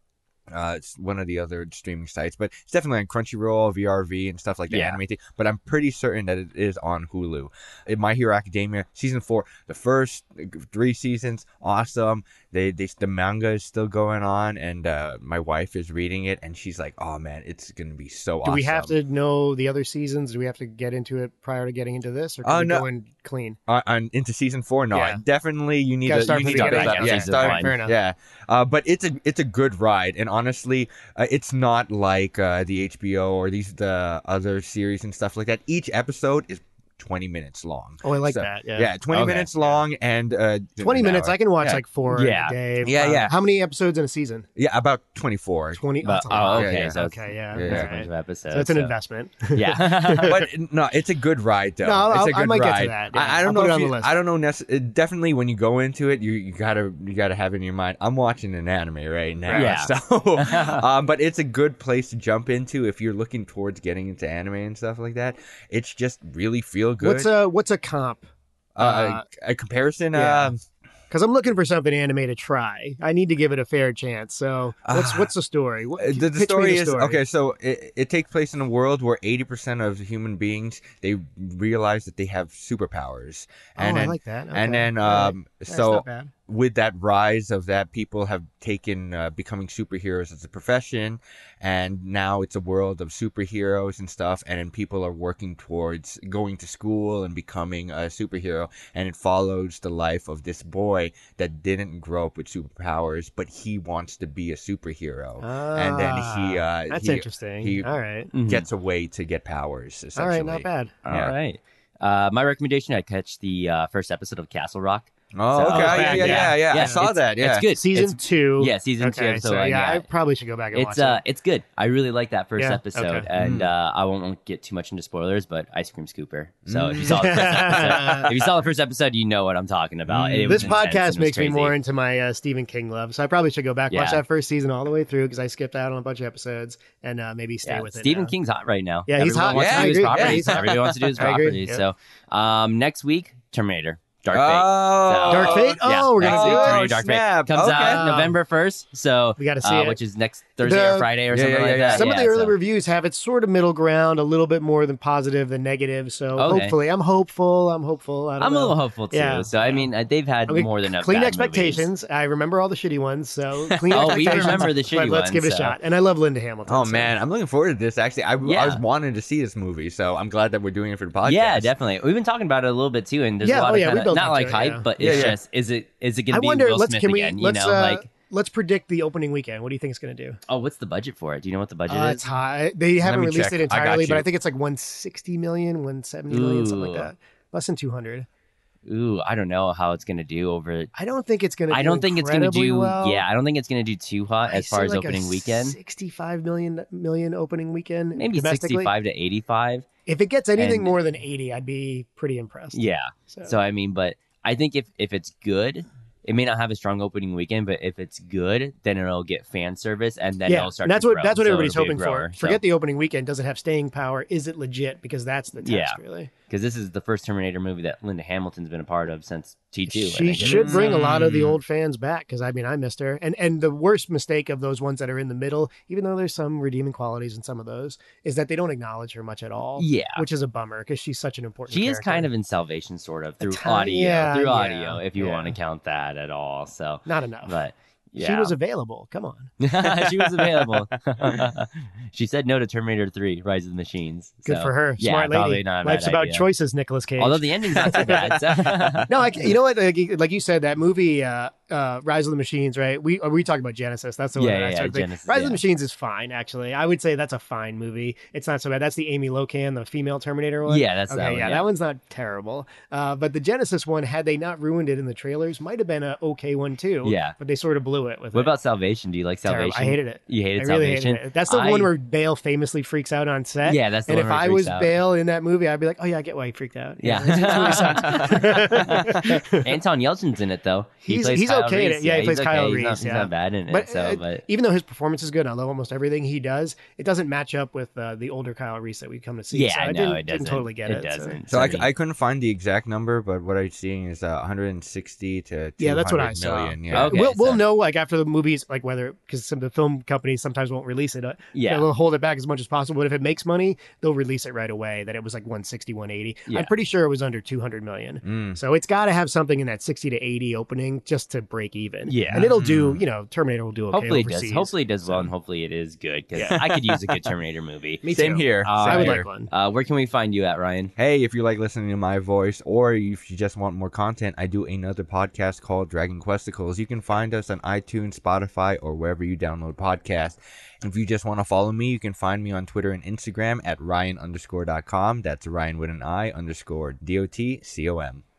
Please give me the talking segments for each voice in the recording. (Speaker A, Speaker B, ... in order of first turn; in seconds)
Speaker A: 0.5-18.9, 22.4-22.8, 23.7-41.8, 42.8-43.3, 44.5-47.0, 47.5-47.9, 50.2-67.3, 68.8-70.6, 74.8-75.3, 76.0-107.9, 108.4-111.3, 115.3-118.0, 123.4-123.7, 126.7-128.5, 130.1-130.7, 139.5-141.1, 144.3-148.1, 151.3-152.1, 163.9-164.7, 166.7-171.7, 175.0-175.4, 183.0-184.2, 220.4-221.6, 291.5-297.2, 308.2-308.6, 312.3-313.0, 316.4-316.7, 318.1-319.3, 320.9-338.2
Speaker B: 4.7-5.0, 26.4-27.7, 39.1-39.5, 42.1-42.5, 46.0-48.9, 49.5-50.4, 59.5-60.8, 108.3-108.7, 111.0-120.0, 120.7-131.7, 133.9-134.2, 137.6-152.6, 156.3-156.8, 158.4-161.9, 163.9-165.8, 168.4-168.8, 171.2-178.0, 180.5-182.2, 186.3-187.1, 188.8-190.9, 191.7-195.8, 198.2-199.8, 200.6-200.9, 202.7-212.6, 215.6-221.0, 229.8-230.2, 231.7-238.5, 239.6-246.4, 247.2-249.4, 254.3-255.6, 260.6-261.6, 267.0-267.4, 268.3-271.9, 273.6-275.0, 277.0-284.4, 289.5-291.9, 296.9-297.6, 301.5-301.9, 312.1-312.4, 313.9-318.0, 318.6-320.9
Speaker C: 18.4-23.6, 24.9-25.2, 26.1-27.9, 38.0-38.9, 40.8-44.5, 45.7-50.5, 51.8-54.1, 59.5-59.8, 67.0-68.2, 68.8-69.2, 70.1-70.5, 71.1-77.2, 83.8-86.3, 105.4-108.3, 110.2-110.9, 115.6-117.1, 117.7-121.2, 122.6-123.3, 127.0-128.3, 130.5-138.3, 139.1-141.8, 145.3-147.0, 147.7-148.4, 149.4-150.0, 150.6-151.1, 151.9-159.9, 160.5-167.1, 173.4-175.3, 176.3-180.4, 181.9-188.3, 190.9-193.2, 194.5-198.9, 200.1-202.8, 210.5-216.3, 219.9-232.3, 233.4-235.6, 237.1-237.6, 238.2-240.8, 244.4-268.5, 269.4-279.7, 281.1-291.4, 295.8-315.3, 316.3-316.7, 318.0-319.5